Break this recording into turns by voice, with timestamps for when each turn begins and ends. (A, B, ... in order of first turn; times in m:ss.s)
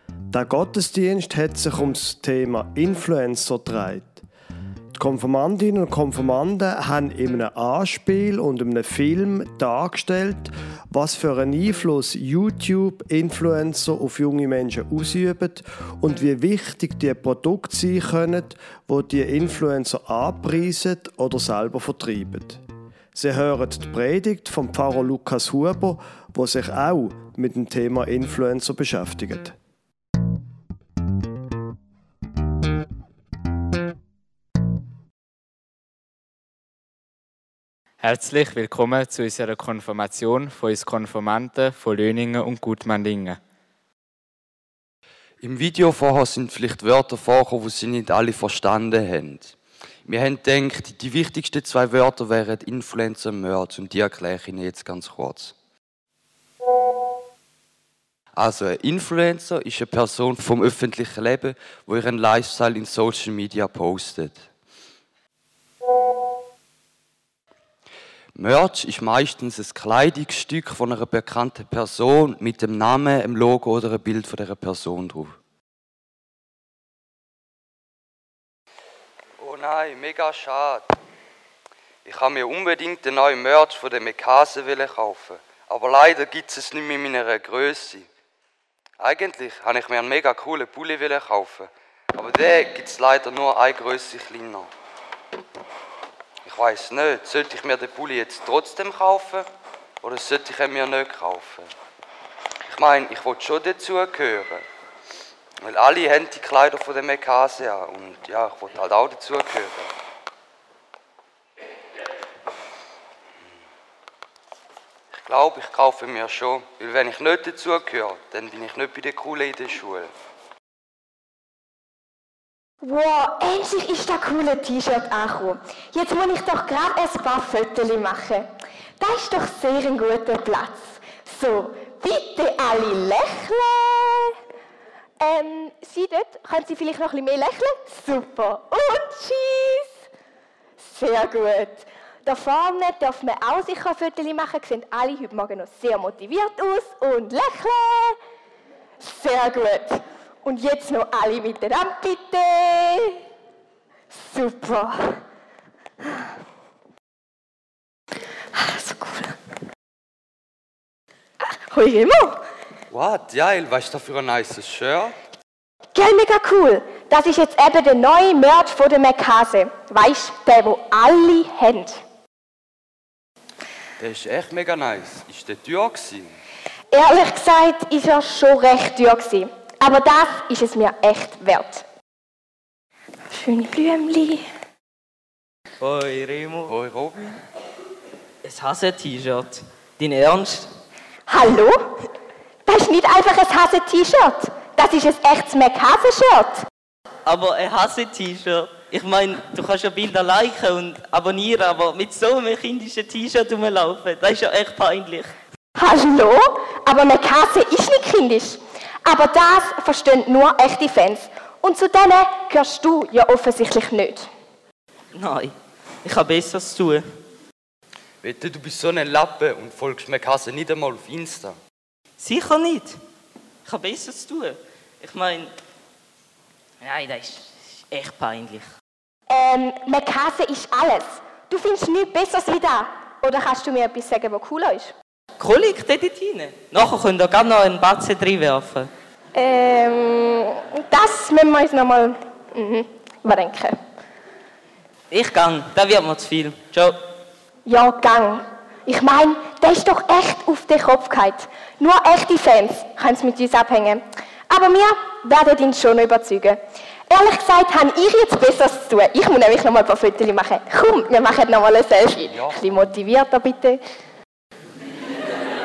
0:00.3-0:04.2 A
0:05.0-0:22.6 A
0:23.1-0:29.6 A
0:38.0-0:43.4 B
0:45.4-0:49.6 C
0:50.1-0:55.6 C
0:58.4-1:04.5 C
1:08.3-1:15.4 C
1:19.4-1:20.9 C
1:22.0-1:28.1 C
1:29.0-1:34.7 C
1:36.4-1:39.5 C
1:40.0-1:41.7 C
1:42.7-1:44.6 C
1:45.6-1:49.9 C
1:55.1-2:00.1 C
2:02.8-2:14.4 D
2:15.2-2:19.9 D
2:20.8-2:28.2 D
2:29.0-2:33.2 D
2:34.1-2:35.2 D
2:36.0-2:36.3 D
2:38.5-2:39.4 D
2:41.4-2:42.4 D
2:42.9-2:45.1 C
2:45.9-2:52.0 D
2:54.0-2:56.4 C
2:56.9-3:01.8 D
3:03.3-3:04.4 D
3:05.8-3:06.7 E
3:06.7-3:07.4 C
3:08.4-3:10.7 E
3:11.3-3:12.0 D
3:12.7-3:16.7 D
3:17.2-3:25.3 E
3:25.8-3:34.3 D
3:35.1-3:37.0 E
3:38.2-3:41.6 C
3:42.2-3:43.0 E
3:43.6-3:45.5 E
3:46.8-3:48.7 E
3:49.3-3:54.9 D
3:55.4-3:58.9 E
3:59.4-4:03.8 D
4:05.1-4:07.0 E
4:07.7-4:23.8 D